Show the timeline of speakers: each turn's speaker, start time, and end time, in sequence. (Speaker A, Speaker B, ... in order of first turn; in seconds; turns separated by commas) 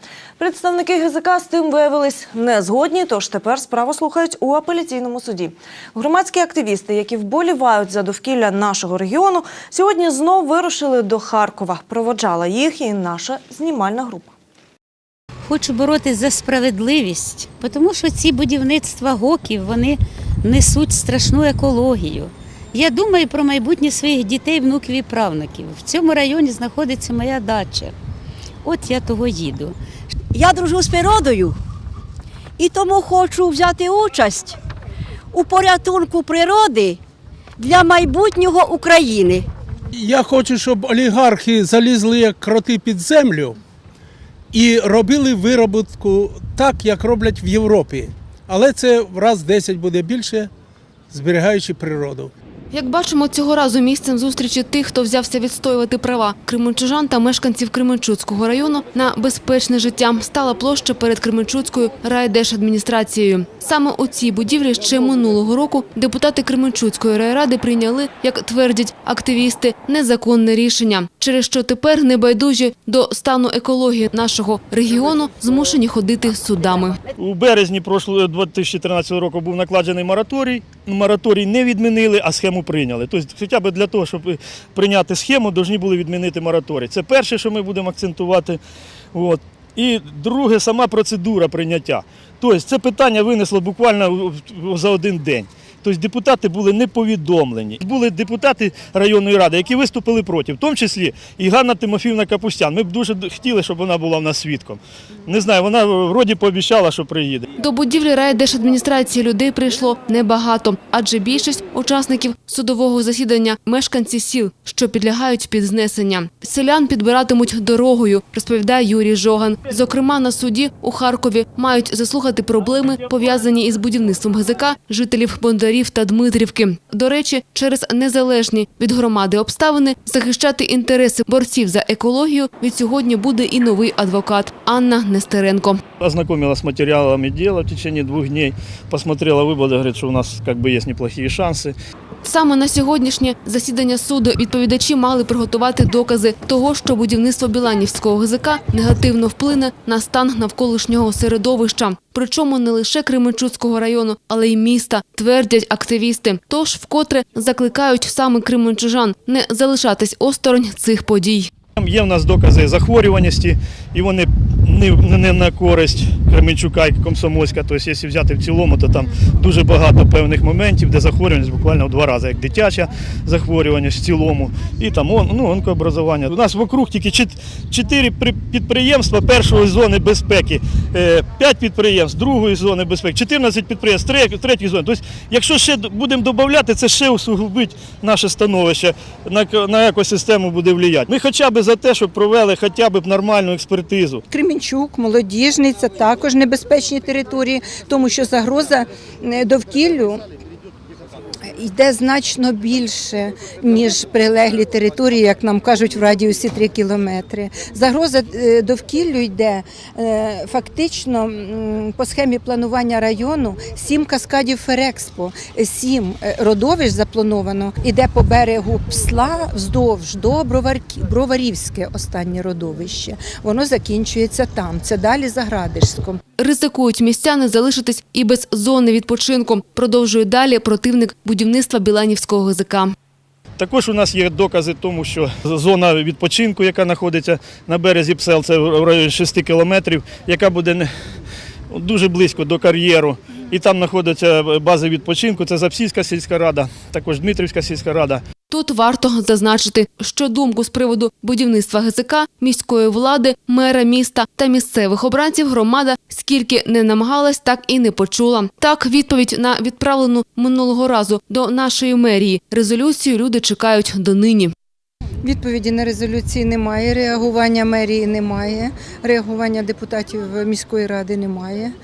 Speaker A: 0.4-14.3, Speaker B: 15.5-27.9, Speaker B: 28.6-29.7, Speaker C: 30.3-31.6, Speaker C: 32.6-34.6, Speaker C: 35.3-37.0, Speaker C: 37.6-39.4, Speaker D: 39.9-43.5, Speaker D: 44.5-50.5, Speaker D: 51.1-52.3, Speaker E: 52.7-77.0, Speaker F: 77.2-88.6, Speaker F: 89.1-107.5, Speaker E: 107.6-135.8, Speaker F: 136.0-141.7, Speaker E: 142.2-161.5, Speaker F: 161.8-194.2, Speaker G: 194.3-200.2, Speaker G: 201.5-226.2, Speaker E: 226.4-232.9, Speaker F: 233.6-240.9, Speaker F: 241.7-248.2, Speaker E: 248.5-264.5, Speaker G: 265.2-271.7